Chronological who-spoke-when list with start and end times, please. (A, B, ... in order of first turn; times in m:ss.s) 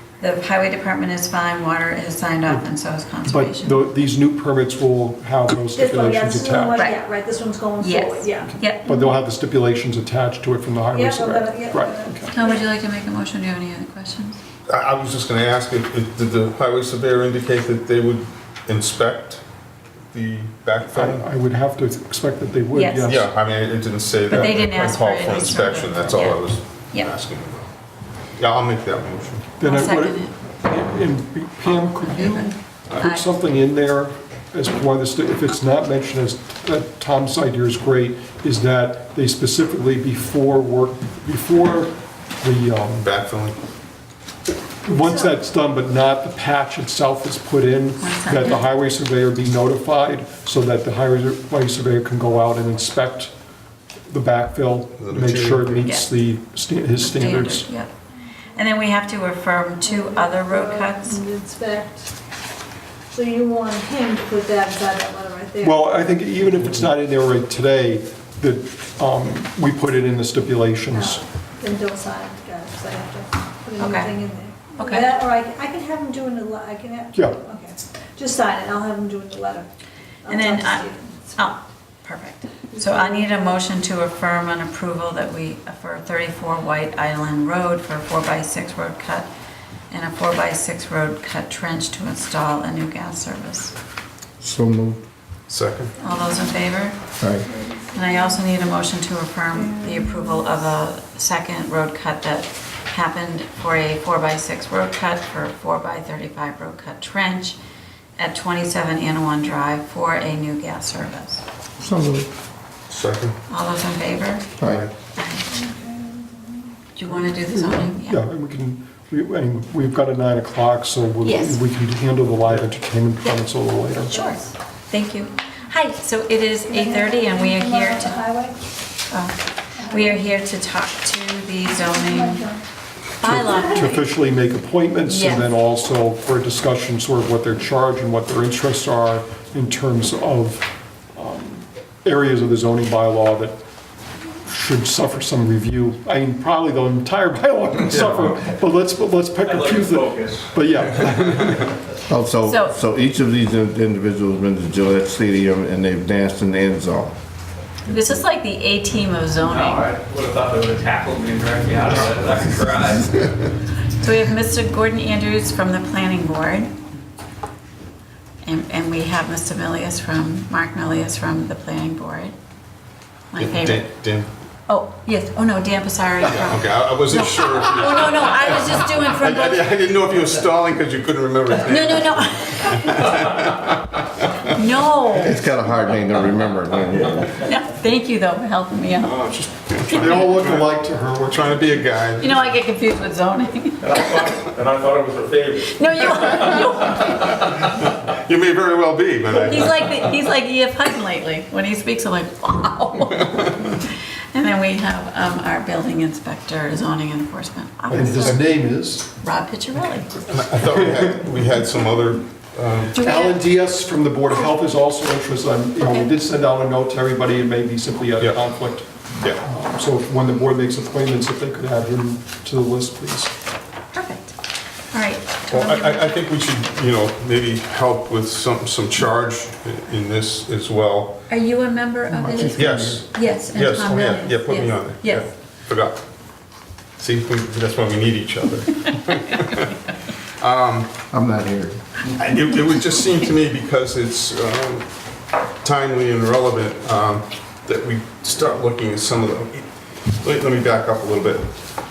0:00.2-0:03.8 A
0:03.2-0:06.8 B
0:05.7-0:08.5 C
0:07.8-0:08.9 A
0:08.5-0:12.3 B
0:10.9-0:12.6 C
0:12.3-0:14.4 A
0:14.7-0:19.4 D
0:20.1-0:21.3 D
0:20.9-0:23.3 B
0:22.7-0:23.2 A
0:23.0-0:27.7 D
0:24.3-0:26.4 A
0:24.3-0:24.6 B
0:28.4-0:29.4 D
0:29.6-0:43.1 B
0:29.6-0:30.3 A
0:31.7-0:32.5 A
0:33.0-0:33.2 A
0:43.0-0:43.6 D
0:44.8-0:53.3 B
0:48.0-0:48.6 A
0:54.1-0:57.7 B
0:55.0-0:55.7 D
0:57.0-0:57.9 A
0:58.5-1:01.2 A
0:59.8-1:02.1 C
1:03.1-1:05.8 C
1:05.6-1:11.2 B
1:10.9-1:19.7 C
1:13.8-1:14.1 A
1:14.7-1:15.1 A
1:20.2-1:21.5 C
1:20.2-1:29.3 A
1:22.8-1:23.3 C
1:29.9-1:33.7 A
1:34.4-1:35.0 E
1:35.5-1:35.9 D
1:36.0-1:37.0 A
1:37.2-1:37.4 E
1:37.5-1:38.2 C
1:37.9-1:47.6 A
1:39.5-1:40.5 C
1:48.2-1:51.4 A
1:51.8-1:52.3 E
1:52.9-1:53.4 D
1:53.5-1:54.5 A
1:54.6-1:54.8 E
1:55.1-1:55.5 A
1:55.5-1:56.7 C
1:57.0-1:58.2 A
1:57.5-2:04.2 B
2:01.2-2:01.6 A
2:04.1-2:08.2 A
2:04.1-2:04.4 C
2:06.7-2:08.6 C
2:09.1-2:09.4 A
2:09.8-2:10.2 C
2:09.9-2:12.4 A
2:11.7-2:12.7 C
2:13.2-2:14.1 A
2:13.2-2:23.6 B
2:15.0-2:15.5 A
2:24.4-2:31.7 B
2:29.4-2:30.5 F
2:32.1-2:37.1 E
2:32.4-2:32.7 A
2:37.9-2:39.8 A
2:39.4-2:43.3 F
2:44.0-2:46.7 A
2:48.4-2:52.3 A
2:53.3-2:53.9 A
2:53.4-2:54.3 D
2:54.7-2:59.7 A
2:56.4-3:04.0 D
3:01.6-3:03.2 A
3:04.4-3:05.4 A
3:05.2-3:07.3 E
3:07.4-3:09.3 A
3:09.0-3:10.7 D
3:09.9-3:10.3 A
3:09.9-3:11.8 B
3:11.3-3:12.3 D
3:12.2-3:14.1 A
3:13.8-3:17.5 F
3:15.7-3:17.4 A
3:17.7-3:20.0 D
3:19.3-3:28.6 A
3:27.9-3:29.1 B
3:28.0-3:28.2 D
3:29.2-3:30.2 A
3:30.3-3:32.9 D
3:32.9-3:33.4 A
3:33.0-3:38.9 B
3:35.8-3:36.0 A
3:39.4-3:43.3 B
3:43.9-3:44.3 A
3:44.9-3:46.2 A
3:45.5-3:51.2 D
3:51.3-3:55.3 A
3:52.2-3:53.0 B
3:52.2-3:52.9 E
3:52.6-3:56.0 D
3:57.0-3:59.7 D
4:00.4-4:00.9 D
4:01.1-4:01.8 E
4:02.1-4:04.9 D
4:05.6-4:11.5 D